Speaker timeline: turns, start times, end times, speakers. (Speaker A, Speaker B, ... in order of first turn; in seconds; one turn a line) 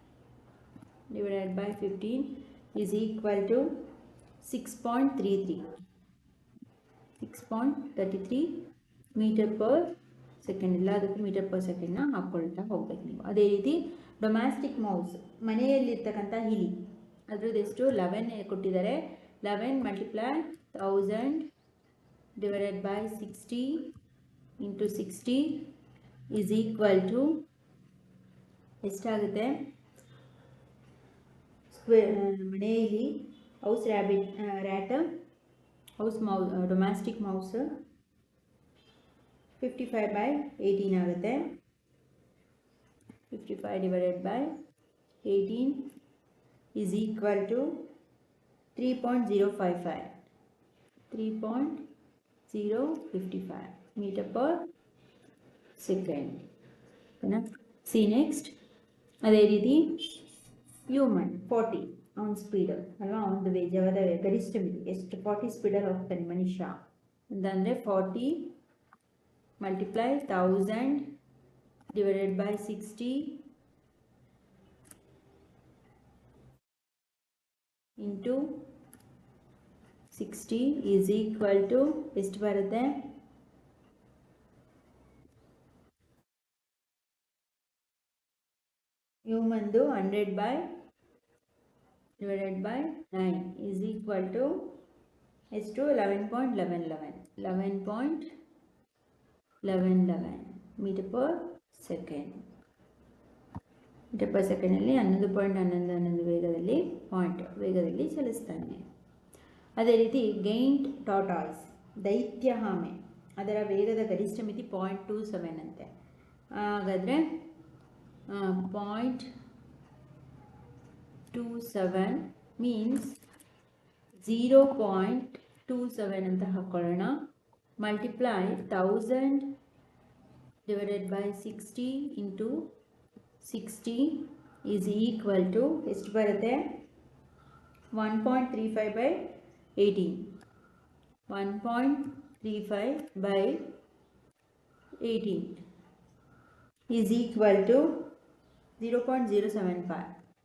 Speaker A: 1.1-3.9
Speaker A: 4.4-5.8
Speaker A: 7.2-21.5
Speaker A: 22.4-23.9
Speaker A: 24.6-25.7
Speaker A: 26.3-27.4
Speaker A: 28.8-29.6
Speaker A: 31.7-35.1
Speaker A: 36.0-37.8
Speaker A: 39.6-41.6
Speaker A: 43.3-44.5
Speaker A: 45.2-45.9
Speaker A: 46.8-47.9
Speaker A: 48.7-50.2
Speaker A: 51.1-51.8
Speaker A: 52.5-54.7
Speaker A: 55.8-56.5
Speaker A: 57.2-58.5
Speaker A: 59.2-60.2
Speaker A: 60.9-68.5
Speaker A: 69.6-71.2
Speaker A: 71.9-73.4
Speaker A: 78.0-78.7
Speaker A: 80.1-83.1
Speaker A: 89.2-90.7
Speaker A: 92.2-94.7
Speaker A: 95.5-98.3
Speaker A: 99.6-102.4
Speaker A: 104.1-108.8
Speaker A: 109.8-115.9
Speaker A: 116.5-117.5
Speaker A: 118.3-119.3
Speaker A: 121.3-123.2
Speaker A: 124.1-127.3
Speaker A: 127.8-129.6
Speaker A: 130.7-132.7
Speaker A: 133.4-136.8
Speaker A: 137.9-140.3
Speaker A: 141.3-143.7
Speaker A: 145.0-145.6
Speaker A: 146.9-148.1
Speaker A: 148.8-150.1